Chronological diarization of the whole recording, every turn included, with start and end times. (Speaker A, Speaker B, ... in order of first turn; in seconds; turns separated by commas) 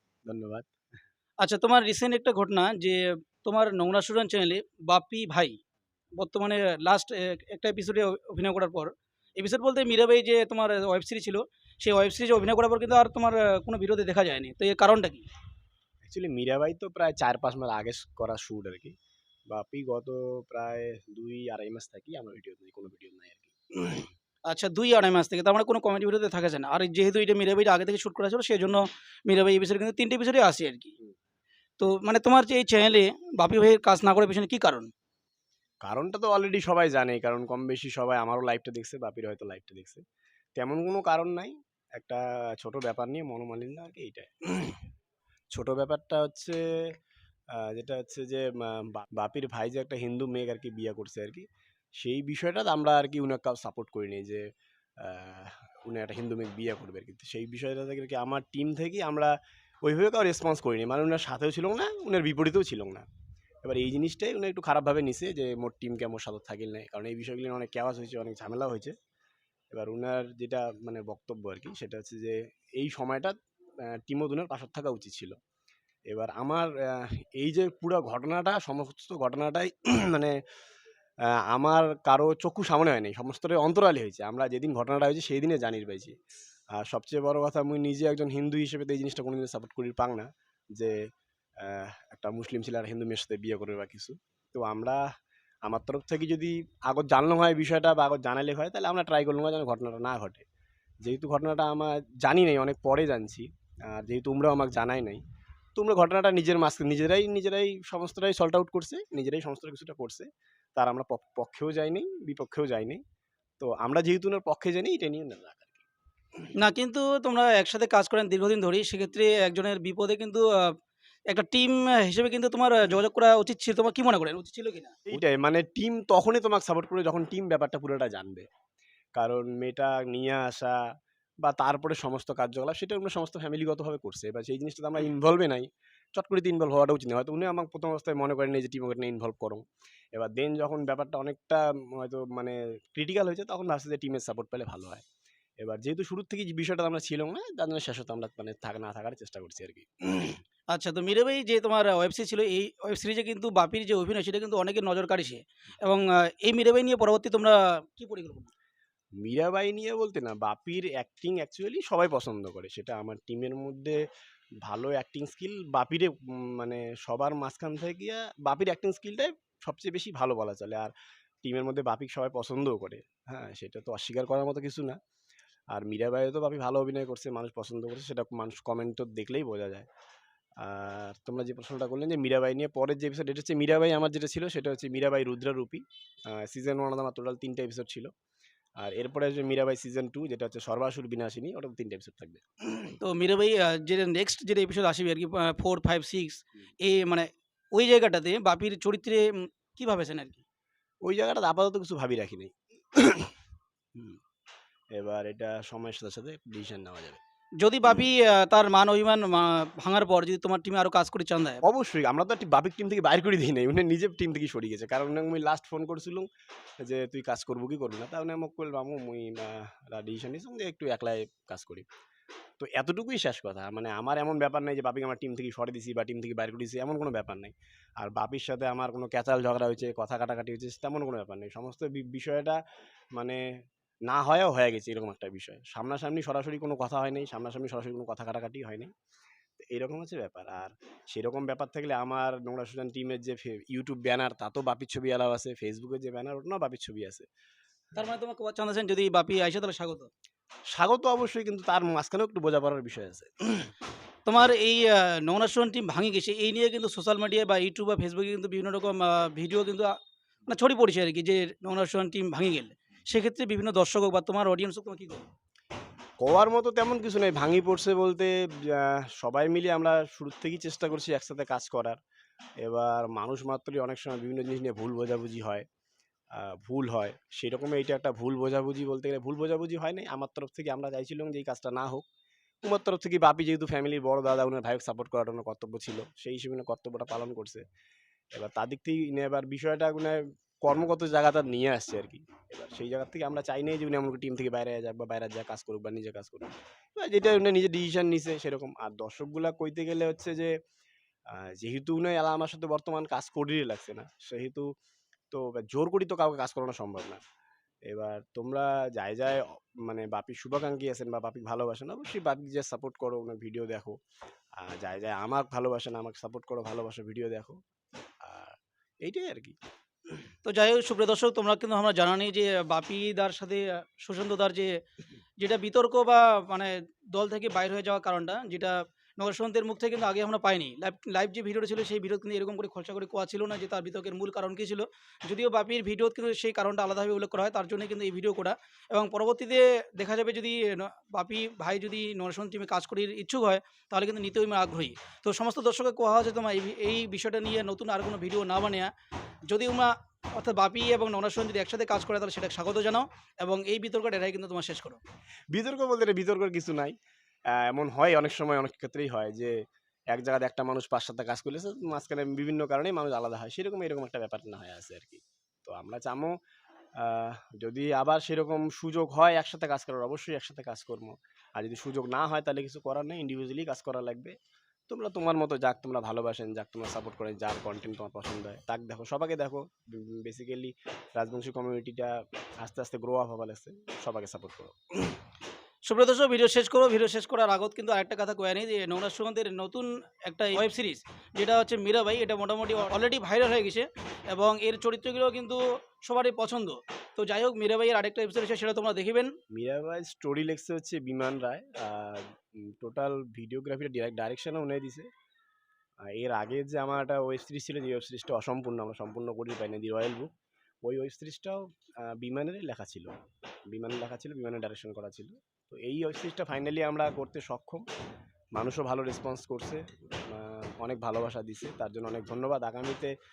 Speaker A: 0.2-0.7, Speaker B: 1.4-5.6, Speaker B: 6.2-15.3, Speaker A: 16.0-18.9, Speaker A: 19.5-24.0, Speaker B: 24.5-30.9, Speaker B: 31.8-34.9, Speaker A: 35.8-40.0, Speaker A: 40.5-44.9, Speaker A: 45.5-47.0, Speaker A: 47.5-51.5, Speaker A: 52.0-54.4, Speaker A: 55.0-63.0, Speaker A: 63.6-68.9, Speaker A: 69.7-75.3, Speaker A: 76.1-80.3, Speaker A: 81.3-86.2, Speaker A: 86.7-91.0, Speaker A: 91.6-95.0, Speaker A: 95.7-100.5, Speaker A: 101.0-105.2, Speaker A: 105.8-113.0, Speaker A: 113.6-115.8, Speaker B: 116.5-120.7, Speaker B: 121.3-125.1, Speaker A: 125.1-128.5, Speaker A: 129.1-130.8, Speaker A: 131.4-139.6, Speaker A: 140.2-145.0, Speaker A: 145.6-150.4, Speaker B: 150.7-158.5, Speaker A: 159.2-164.0, Speaker A: 164.6-175.0, Speaker A: 175.7-179.9, Speaker A: 180.6-188.1, Speaker A: 188.8-192.9, Speaker B: 193.0-200.4, Speaker A: 201.0-203.3, Speaker A: 203.9-204.2, Speaker A: 204.9-207.2, Speaker B: 207.6-211.6, Speaker A: 211.6-216.3, Speaker A: 216.8-221.8, Speaker A: 222.6-232.6, Speaker A: 233.1-233.4, Speaker A: 234.1-238.9, Speaker A: 239.6-247.3, Speaker B: 247.9-250.1, Speaker A: 250.7-253.7, Speaker B: 254.2-259.9, Speaker B: 260.5-265.2, Speaker A: 266.2-272.0, Speaker A: 272.6-275.6, Speaker A: 276.3-282.1, Speaker A: 282.6-287.6, Speaker A: 288.3-300.5, Speaker A: 301.3-304.7, Speaker A: 305.3-307.2, Speaker A: 307.9-314.0, Speaker A: 314.6-317.6, Speaker A: 318.2-319.6, Speaker B: 320.4-324.8, Speaker B: 325.4-348.9, Speaker B: 349.5-355.0, Speaker A: 355.5-356.9, Speaker A: 357.5-359.6, Speaker A: 360.1-366.3, Speaker A: 367.0-374.4, Speaker A: 374.9-385.1, Speaker B: 385.9-399.3, Speaker A: 399.5-405.1, Speaker A: 406.1-410.3, Speaker A: 410.8-413.1, Speaker A: 413.7-417.8, Speaker A: 418.6-423.1